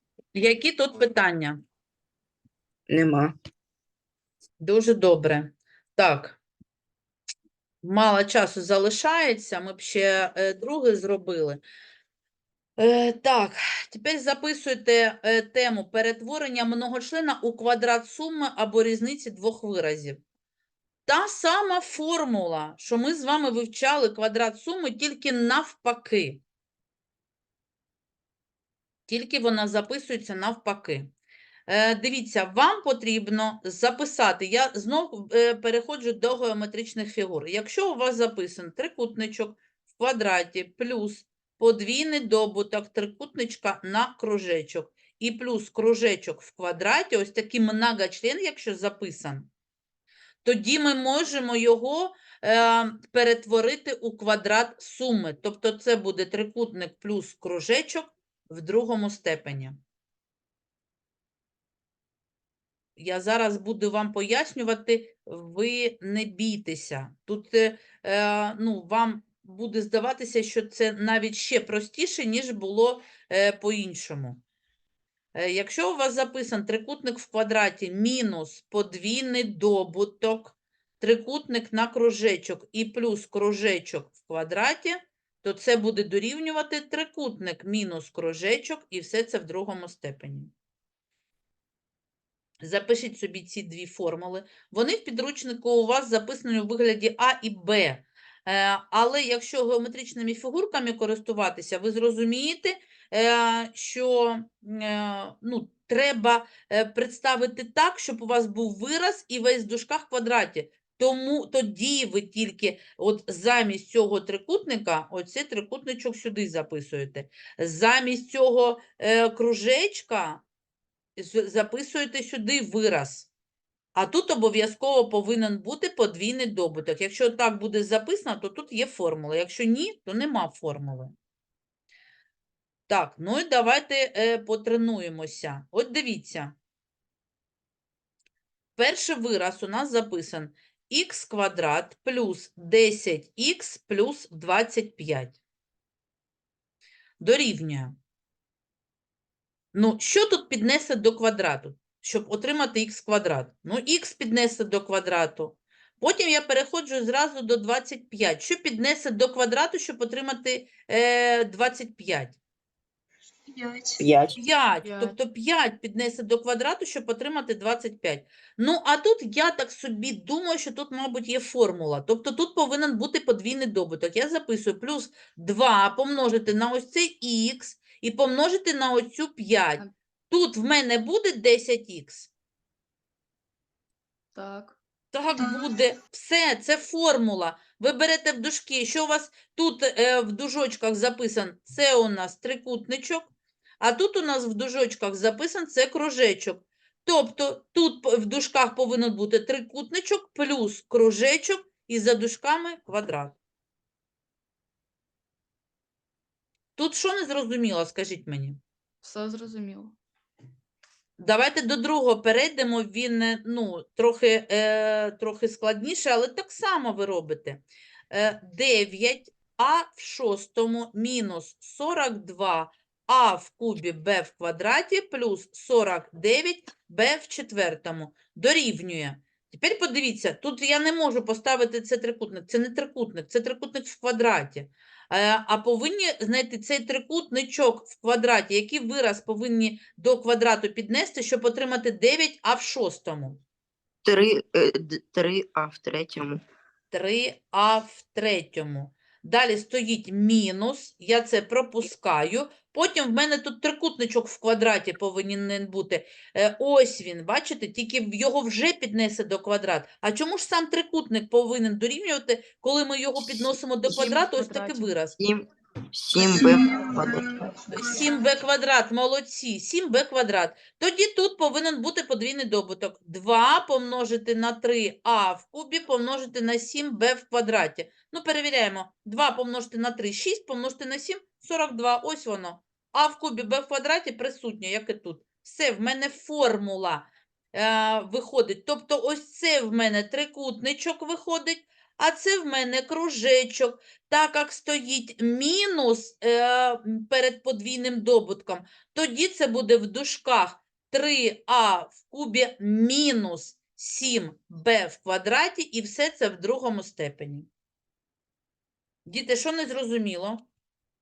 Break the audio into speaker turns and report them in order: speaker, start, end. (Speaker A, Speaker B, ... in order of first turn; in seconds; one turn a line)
Speaker A: 0.3-1.6
Speaker B: 2.9-3.3
Speaker A: 4.6-6.4
Speaker A: 7.8-11.6
Speaker A: 12.8-20.2
Speaker A: 21.1-26.4
Speaker A: 29.1-31.1
Speaker A: 31.7-49.5
Speaker A: 50.4-59.8
Speaker A: 63.0-74.4
Speaker A: 75.3-90.5
Speaker A: 92.6-120.4
Speaker A: 121.2-123.3
Speaker A: 123.9-131.1
Speaker A: 132.9-136.6
Speaker A: 138.8-145.4
Speaker A: 147.2-147.9
Speaker A: 149.7-162.4
Speaker C: 163.5-164.1
Speaker B: 164.0-164.3
Speaker A: 164.3-182.3
Speaker D: 164.8-165.2
Speaker D: 184.3-184.8
Speaker A: 185.1-203.4
Speaker C: 185.3-185.8
Speaker A: 206.8-208.6
Speaker D: 209.0-209.9
Speaker A: 211.2-243.4
Speaker B: 244.0-246.4
Speaker A: 246.9-265.1
Speaker D: 263.8-265.0
Speaker B: 265.2-267.2
Speaker C: 266.2-268.1
Speaker A: 267.7-307.5
Speaker A: 309.1-310.4